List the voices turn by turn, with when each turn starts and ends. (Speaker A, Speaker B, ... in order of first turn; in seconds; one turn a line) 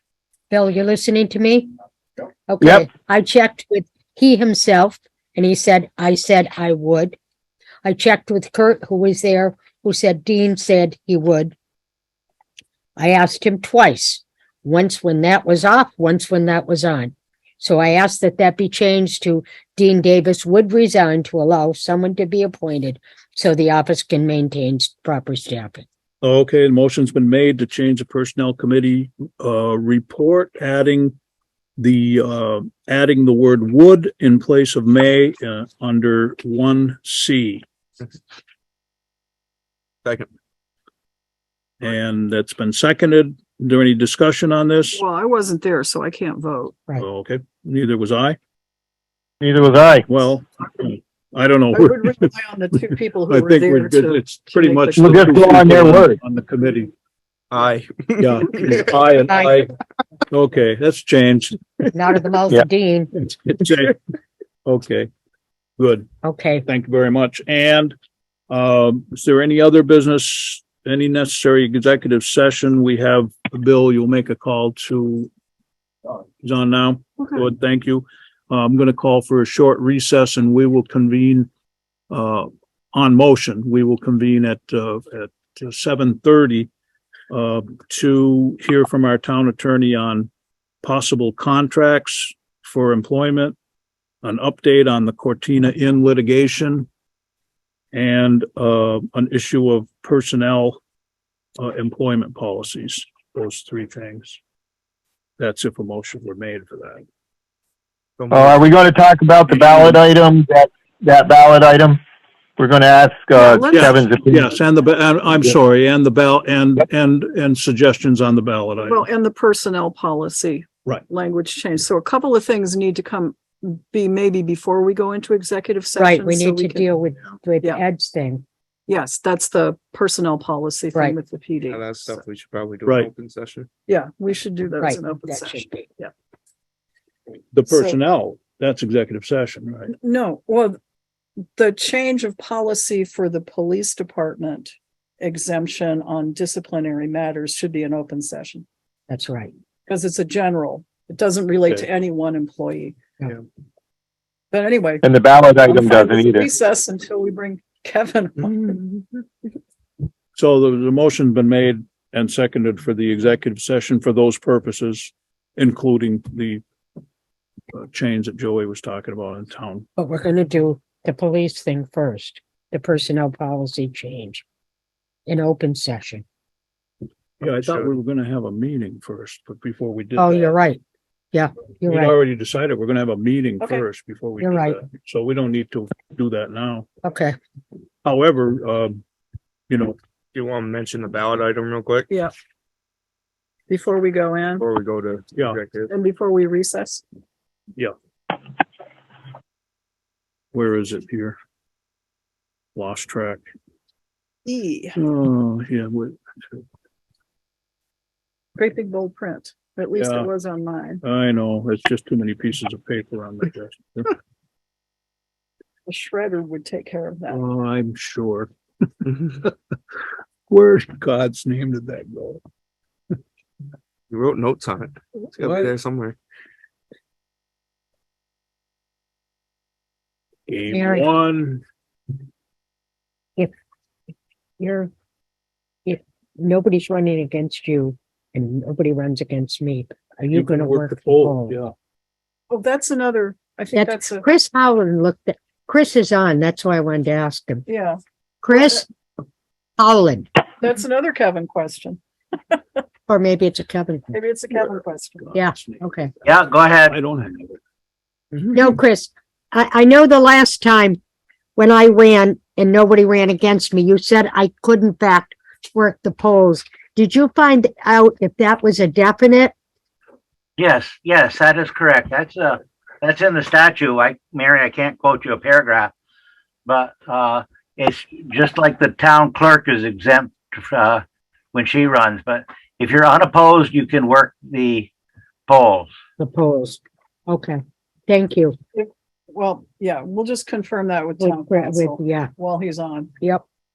Speaker A: 0.5-1.7
Speaker A: 2.5-7.2
Speaker A: 7.8-11.5
Speaker A: 13.0-25.9
Speaker B: 26.2-31.1
Speaker B: 31.8-37.6
Speaker B: 41.8-45.0
Speaker C: 44.9-46.9
Speaker B: 47.0-48.4
Speaker D: 49.4-50.1
Speaker B: 50.1-52.3
Speaker C: 51.7-55.6
Speaker B: 53.3-56.9
Speaker D: 55.0-56.2
Speaker E: 57.5-58.4
Speaker B: 58.2-59.7
Speaker B: 60.3-61.6
Speaker A: 61.9-63.1
Speaker B: 63.2-64.0
Speaker B: 64.7-65.1
Speaker B: 65.8-66.1
Speaker A: 66.2-66.7
Speaker B: 66.7-68.0
Speaker B: 68.5-75.3
Speaker B: 76.1-81.5
Speaker B: 82.1-86.7
Speaker B: 87.3-90.3
Speaker B: 90.8-93.6
Speaker B: 94.2-96.9
Speaker B: 97.9-100.8
Speaker B: 101.6-104.4
Speaker B: 105.4-107.0
Speaker E: 108.2-108.7
Speaker D: 108.3-112.0
Speaker B: 109.5-110.0
Speaker D: 112.6-114.5
Speaker C: 113.3-114.0
Speaker B: 113.7-119.0
Speaker C: 118.9-126.9
Speaker A: 126.0-128.4
Speaker C: 128.9-132.2
Speaker E: 131.7-133.7
Speaker C: 133.9-136.1
Speaker A: 134.8-135.9
Speaker B: 137.5-139.9
Speaker C: 137.7-138.0
Speaker C: 139.9-140.8
Speaker C: 141.6-148.7
Speaker A: 149.1-149.5
Speaker C: 149.9-153.0
Speaker C: 154.5-155.1
Speaker D: 155.0-156.5
Speaker C: 155.6-159.2
Speaker B: 160.4-166.6
Speaker B: 167.7-169.9
Speaker A: 170.0-174.4
Speaker A: 175.3-176.2
Speaker B: 177.4-180.6
Speaker E: 177.4-177.9
Speaker A: 180.2-180.8
Speaker A: 181.3-182.1
Speaker B: 181.8-186.9
Speaker A: 184.4-184.8
Speaker A: 187.0-187.4
Speaker B: 188.1-189.0
Speaker B: 189.7-190.0
Speaker E: 190.3-192.1
Speaker C: 193.7-194.7
Speaker E: 194.6-195.9
Speaker B: 195.3-195.6
Speaker C: 195.9-197.0
Speaker B: 200.5-201.4
Speaker B: 202.8-203.4
Speaker C: 204.5-205.0
Speaker B: 205.0-206.6
Speaker C: 208.6-211.0
Speaker B: 210.0-210.3
Speaker B: 211.0-214.1
Speaker C: 215.9-217.4
Speaker B: 217.3-219.5
Speaker B: 220.5-222.4
Speaker E: 224.1-226.2
Speaker B: 225.4-225.7
Speaker B: 230.5-231.6
Speaker A: 230.7-231.1
Speaker A: 234.6-234.9
Speaker A: 235.9-241.6
Speaker B: 240.3-241.7
Speaker C: 242.5-244.3
Speaker A: 243.8-247.7
Speaker C: 247.7-248.0
Speaker A: 248.4-248.9
Speaker C: 248.5-248.8
Speaker A: 249.8-250.3
Speaker C: 250.6-252.8
Speaker A: 253.1-254.2
Speaker C: 254.1-255.3
Speaker B: 255.3-256.3
Speaker A: 255.3-256.1
Speaker F: 256.2-256.9
Speaker B: 256.9-257.6
Speaker A: 258.5-261.0
Speaker A: 261.6-269.5
Speaker F: 270.6-275.9
Speaker F: 276.7-284.9
Speaker F: 285.5-285.9
Speaker A: 286.2-288.6
Speaker C: 288.7-293.1
Speaker A: 291.2-292.3